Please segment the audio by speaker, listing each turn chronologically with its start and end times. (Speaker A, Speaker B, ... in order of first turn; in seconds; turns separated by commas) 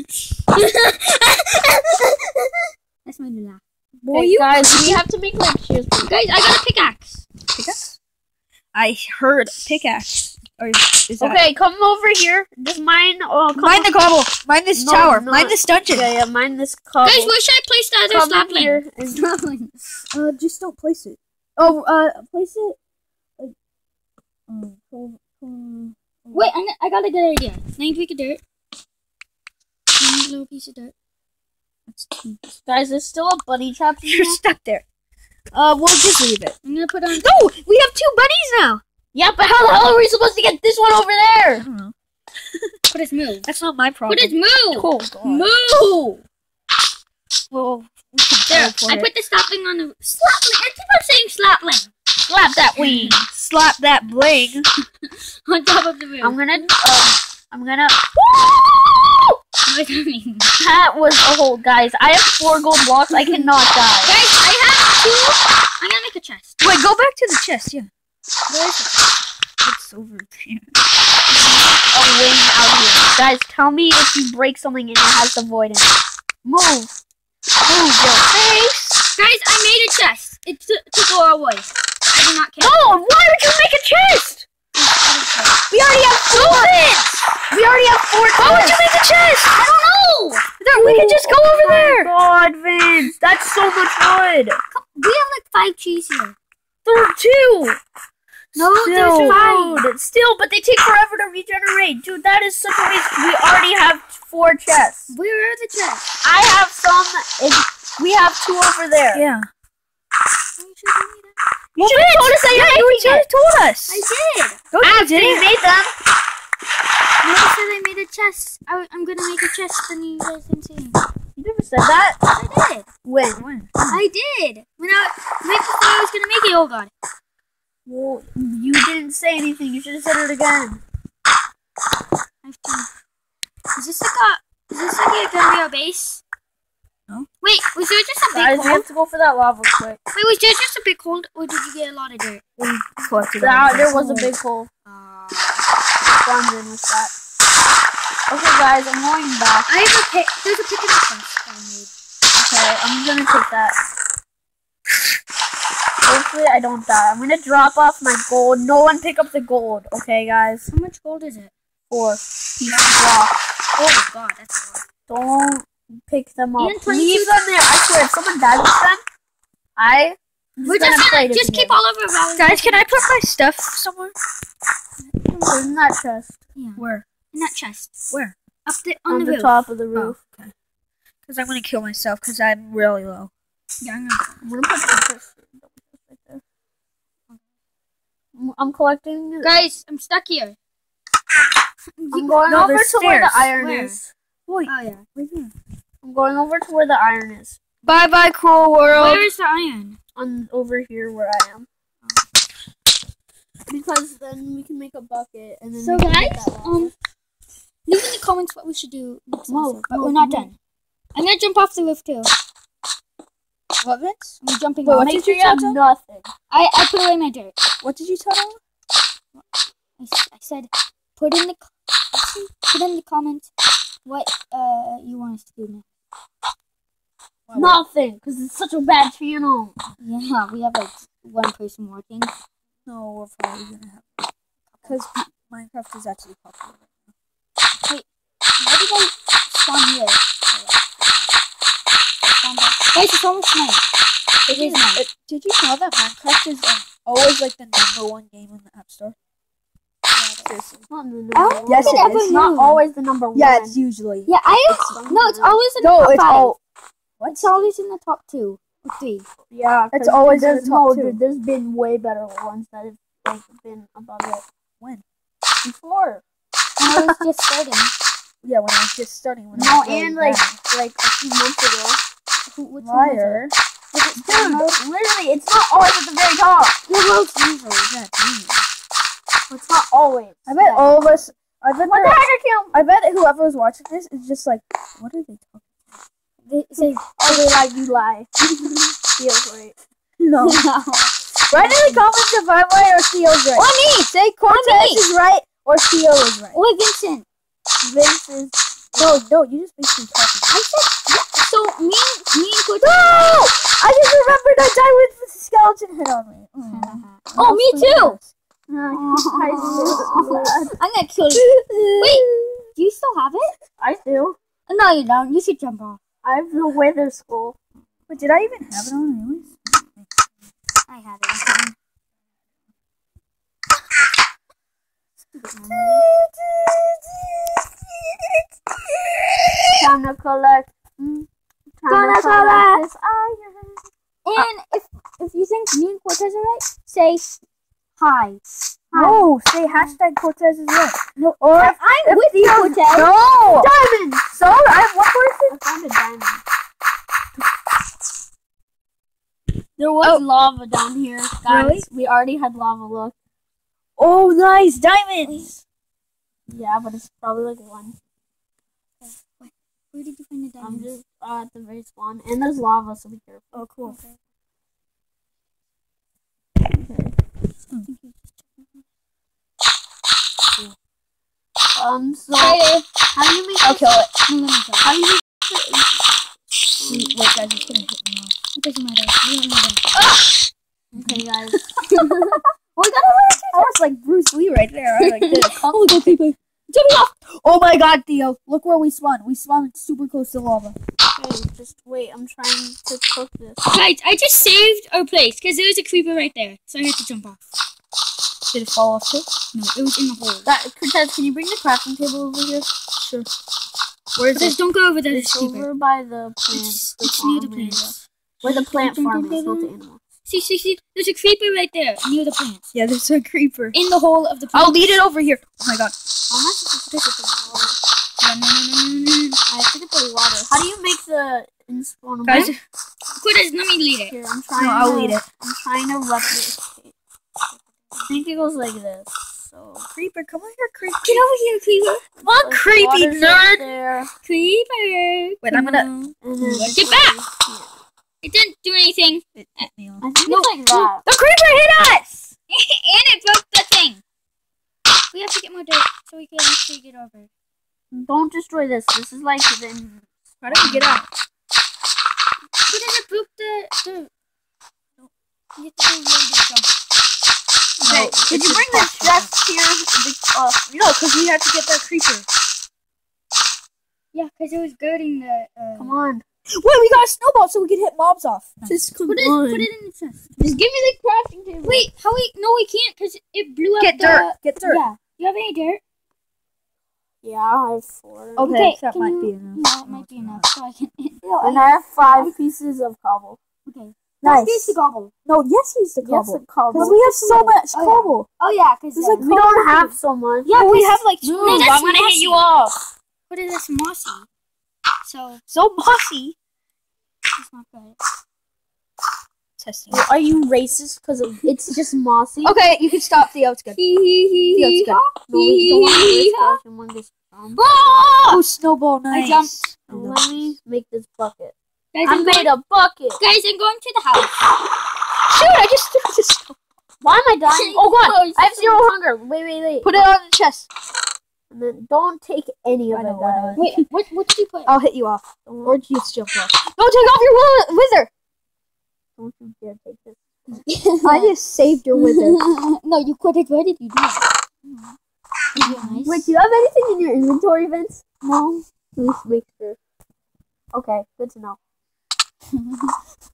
Speaker A: 0.5-2.5, Speaker A: 3.0-3.6, Speaker B: 4.0-5.0, Speaker C: 4.1-6.1, Speaker A: 6.1-7.2, Speaker B: 7.5-8.0, Speaker B: 8.7-11.4, Speaker C: 11.2-13.9, Speaker B: 13.6-16.1, Speaker C: 14.7-17.3, Speaker A: 17.0-19.9, Speaker C: 18.1-19.2, Speaker B: 20.1-22.8, Speaker B: 24.5-26.5, Speaker A: 26.3-28.4, Speaker A: 30.0-30.9, Speaker B: 31.9-32.4, Speaker C: 32.6-34.4, Speaker B: 34.0-34.8, Speaker B: 35.5-36.5, Speaker A: 36.6-37.4, Speaker B: 37.1-38.8, Speaker C: 39.1-41.6, Speaker B: 41.6-42.0, Speaker A: 42.9-43.5, Speaker B: 43.5-44.4, Speaker A: 44.1-46.2, Speaker C: 44.7-45.5, Speaker B: 47.5-49.1, Speaker A: 48.5-51.9, Speaker C: 52.3-53.2, Speaker B: 52.8-54.7, Speaker A: 55.5-56.4, Speaker C: 56.2-59.3, Speaker A: 59.7-60.6, Speaker C: 60.6-64.1, Speaker A: 63.2-63.5, Speaker A: 64.1-66.6, Speaker B: 66.6-67.9, Speaker A: 68.5-69.1, Speaker B: 69.6-70.8, Speaker A: 71.3-71.8, Speaker C: 71.9-76.9, Speaker B: 77.7-79.0, Speaker A: 79.2-82.8, Speaker C: 82.6-84.4, Speaker A: 84.8-85.5, Speaker C: 85.7-86.8, Speaker B: 86.2-86.8, Speaker A: 86.4-87.1, Speaker C: 87.5-88.8, Speaker B: 88.4-89.7, Speaker A: 89.5-90.4, Speaker B: 90.6-92.1, Speaker C: 90.7-94.6, Speaker A: 94.7-96.3, Speaker C: 96.8-97.8, Speaker A: 98.5-99.8, Speaker B: 98.8-99.4, Speaker C: 99.0-105.1, Speaker A: 105.1-106.0, Speaker C: 106.2-109.2, Speaker B: 109.1-109.5, Speaker A: 110.6-111.4, Speaker B: 111.8-114.0, Speaker C: 111.8-113.2, Speaker A: 113.9-114.6, Speaker B: 114.7-115.5, Speaker C: 114.8-115.9, Speaker A: 117.2-121.0, Speaker C: 121.4-122.2, Speaker A: 122.3-122.9, Speaker C: 123.0-123.4, Speaker B: 123.4-124.0, Speaker A: 123.9-126.9, Speaker C: 127.8-130.8, Speaker A: 132.4-132.9, Speaker A: 133.8-136.2, Speaker A: 137.4-138.8, Speaker C: 138.3-140.0, Speaker A: 140.1-142.4, Speaker B: 142.6-143.9, Speaker C: 143.4-144.7, Speaker A: 143.9-145.6, Speaker C: 146.0-147.1, Speaker C: 148.3-149.7, Speaker A: 149.7-151.9, Speaker C: 152.3-153.8, Speaker C: 156.0-160.7, Speaker A: 160.7-161.5, Speaker C: 161.9-163.3, Speaker A: 163.8-164.8, Speaker C: 165.1-169.0, Speaker A: 166.6-167.3, Speaker C: 169.8-171.8, Speaker A: 170.6-173.2, Speaker B: 172.3-174.1, Speaker A: 175.1-175.6, Speaker C: 175.4-176.3, Speaker A: 176.6-177.9, Speaker B: 176.8-177.1, Speaker B: 178.1-178.3, Speaker A: 178.7-179.6, Speaker C: 179.1-180.2, Speaker B: 179.9-180.5, Speaker B: 181.3-183.3, Speaker A: 183.8-184.4, Speaker C: 184.4-186.4, Speaker C: 188.3-189.5, Speaker A: 189.4-190.6, Speaker A: 192.0-192.4, Speaker C: 192.1-194.1, Speaker B: 192.4-193.5, Speaker A: 193.6-194.0, Speaker B: 194.5-195.5, Speaker A: 194.7-195.0, Speaker C: 196.0-197.6, Speaker B: 197.8-199.3, Speaker A: 198.9-200.0, Speaker C: 200.2-201.7, Speaker C: 203.7-206.9, Speaker A: 205.8-206.9, Speaker A: 207.9-210.6, Speaker C: 209.5-210.5, Speaker A: 211.1-212.3, Speaker B: 213.8-215.8, Speaker A: 214.4-215.1, Speaker C: 214.9-216.3, Speaker A: 216.5-217.5, Speaker B: 217.8-218.6, Speaker A: 220.0-223.5, Speaker A: 224.0-225.8, Speaker B: 227.5-227.8, Speaker C: 227.5-229.8, Speaker A: 230.0-232.3, Speaker B: 232.8-234.3, Speaker B: 234.8-237.1, Speaker A: 238.6-241.2, Speaker A: 242.2-243.8, Speaker B: 244.5-249.2, Speaker A: 244.5-245.0, Speaker A: 250.1-250.5, Speaker B: 250.4-250.8, Speaker C: 250.9-253.8, Speaker A: 251.3-252.8, Speaker B: 251.7-252.4, Speaker B: 253.3-254.3, Speaker A: 254.3-256.6, Speaker C: 254.7-255.6, Speaker B: 255.8-256.6, Speaker B: 257.2-257.5, Speaker A: 257.2-259.2, Speaker C: 259.5-264.4, Speaker B: 259.9-261.2, Speaker C: 265.6-266.2, Speaker A: 266.8-267.9, Speaker B: 266.9-267.2, Speaker B: 268.4-270.6, Speaker C: 269.5-272.0, Speaker A: 272.5-274.8, Speaker B: 272.8-273.5, Speaker C: 274.2-276.8, Speaker B: 274.2-274.8, Speaker A: 276.9-277.9, Speaker B: 277.9-278.7, Speaker C: 279.5-280.5, Speaker B: 280.5-282.2, Speaker A: 280.6-281.0, Speaker C: 281.8-282.8, Speaker B: 282.7-285.8, Speaker A: 286.5-287.4, Speaker C: 286.8-288.3, Speaker B: 288.4-288.8, Speaker C: 289.1-289.8, Speaker B: 290.2-290.6, Speaker A: 290.4-292.1, Speaker B: 291.5-296.6, Speaker A: 293.6-295.1, Speaker A: 296.5-297.2, Speaker C: 297.8-298.6, Speaker B: 298.9-300.6, Speaker A: 300.5-303.4, Speaker B: 302.8-308.3, Speaker A: 306.6-308.2, Speaker C: 308.7-310.8, Speaker A: 308.9-313.6, Speaker B: 311.3-312.7, Speaker C: 313.8-314.4, Speaker A: 314.7-316.0, Speaker C: 316.2-317.6, Speaker B: 318.1-320.1, Speaker A: 320.9-321.8, Speaker A: 325.4-326.0, Speaker B: 325.7-329.8, Speaker C: 329.8-331.3, Speaker C: 331.8-333.9, Speaker A: 331.9-332.9, Speaker A: 334.2-337.4, Speaker A: 338.0-338.4, Speaker C: 338.9-339.2, Speaker B: 338.9-343.7, Speaker A: 339.7-340.0, Speaker A: 341.5-343.1, Speaker C: 343.5-344.3, Speaker B: 344.3-345.6, Speaker C: 345.5-346.4, Speaker C: 349.8-353.1, Speaker B: 351.5-351.9, Speaker B: 354.0-355.5, Speaker A: 355.2-355.5, Speaker C: 356.5-358.0, Speaker A: 359.0-360.9, Speaker C: 360.6-363.7, Speaker B: 363.6-364.0, Speaker A: 363.9-364.2, Speaker C: 366.7-367.2, Speaker A: 367.9-368.2, Speaker C: 371.8-373.9, Speaker A: 372.4-372.9, Speaker B: 373.6-374.1, Speaker A: 374.3-375.2, Speaker C: 374.9-375.9, Speaker C: 376.8-377.1, Speaker B: 376.9-378.3, Speaker A: 378.6-380.0, Speaker C: 380.9-381.6, Speaker B: 381.0-382.4, Speaker A: 381.9-383.8, Speaker B: 383.5-386.4, Speaker A: 385.0-385.6, Speaker C: 385.6-386.2, Speaker A: 386.7-387.1, Speaker B: 387.3-390.8, Speaker C: 391.2-393.7, Speaker A: 393.7-397.4, Speaker B: 398.5-399.3, Speaker A: 399.5-400.5, Speaker C: 400.4-402.7, Speaker B: 403.0-403.3, Speaker B: 404.2-404.6, Speaker A: 404.3-405.7, Speaker C: 405.1-410.0, Speaker A: 406.5-409.7, Speaker A: 410.3-412.7, Speaker B: 412.7-413.8, Speaker A: 413.7-414.9, Speaker B: 414.5-416.0, Speaker C: 416.3-417.8, Speaker A: 418.2-419.4, Speaker C: 419.5-422.5, Speaker B: 422.2-422.6, Speaker A: 422.3-422.5, Speaker A: 423.2-424.1, Speaker C: 424.1-426.9, Speaker B: 424.6-425.2, Speaker C: 428.0-429.9, Speaker B: 429.9-431.2, Speaker A: 431.0-432.0, Speaker C: 432.2-434.1, Speaker B: 432.2-433.6, Speaker A: 434.2-436.1, Speaker B: 435.4-436.9, Speaker C: 436.2-437.7, Speaker A: 436.7-437.2, Speaker A: 438.2-439.7, Speaker B: 439.4-440.0, Speaker C: 440.0-441.1, Speaker A: 440.2-440.9, Speaker B: 441.0-442.3, Speaker A: 442.5-444.0, Speaker A: 445.1-447.3, Speaker C: 448.0-451.0, Speaker B: 450.4-451.1, Speaker A: 452.7-454.1, Speaker A: 455.6-456.7, Speaker B: 457.8-459.3, Speaker C: 457.9-460.6, Speaker B: 460.7-462.3, Speaker A: 464.1-466.0, Speaker C: 465.8-466.2, Speaker B: 466.5-468.8, Speaker C: 468.6-469.7, Speaker A: 469.1-470.6, Speaker C: 470.4-471.9, Speaker A: 471.6-475.8, Speaker B: 473.8-474.8, Speaker C: 477.2-478.5, Speaker B: 478.4-480.5, Speaker A: 478.4-482.4, Speaker C: 481.4-483.4, Speaker A: 483.7-485.1, Speaker B: 484.2-488.3, Speaker C: 486.0-487.6, Speaker A: 486.8-489.8, Speaker B: 488.9-489.9, Speaker C: 489.2-490.5, Speaker B: 490.5-491.7, Speaker A: 490.5-492.4, Speaker C: 491.3-492.8, Speaker A: 493.3-494.3, Speaker A: 495.0-495.4, Speaker B: 495.5-496.4, Speaker A: 497.4-498.0, Speaker B: 499.6-500.4, Speaker C: 499.9-502.6, Speaker B: 502.4-503.8, Speaker A: 503.8-506.6, Speaker B: 504.5-505.0, Speaker C: 505.3-508.3, Speaker A: 507.6-508.4, Speaker B: 508.3-510.6, Speaker A: 509.1-509.5, Speaker C: 509.9-513.2, Speaker A: 511.9-512.5, Speaker A: 513.2-514.3, Speaker B: 515.3-516.6, Speaker C: 517.0-520.1, Speaker A: 517.5-518.9, Speaker B: 519.8-520.7, Speaker C: 521.5-523.6, Speaker B: 522.9-523.9, Speaker A: 523.6-524.7, Speaker B: 524.6-528.1, Speaker C: 525.5-525.8, Speaker C: 529.2-530.6, Speaker A: 530.6-531.3, Speaker B: 531.0-532.5, Speaker A: 532.0-534.2, Speaker B: 535.5-536.0, Speaker A: 535.5-536.3, Speaker C: 536.1-538.2, Speaker C: 539.0-539.8, Speaker C: 540.7-541.6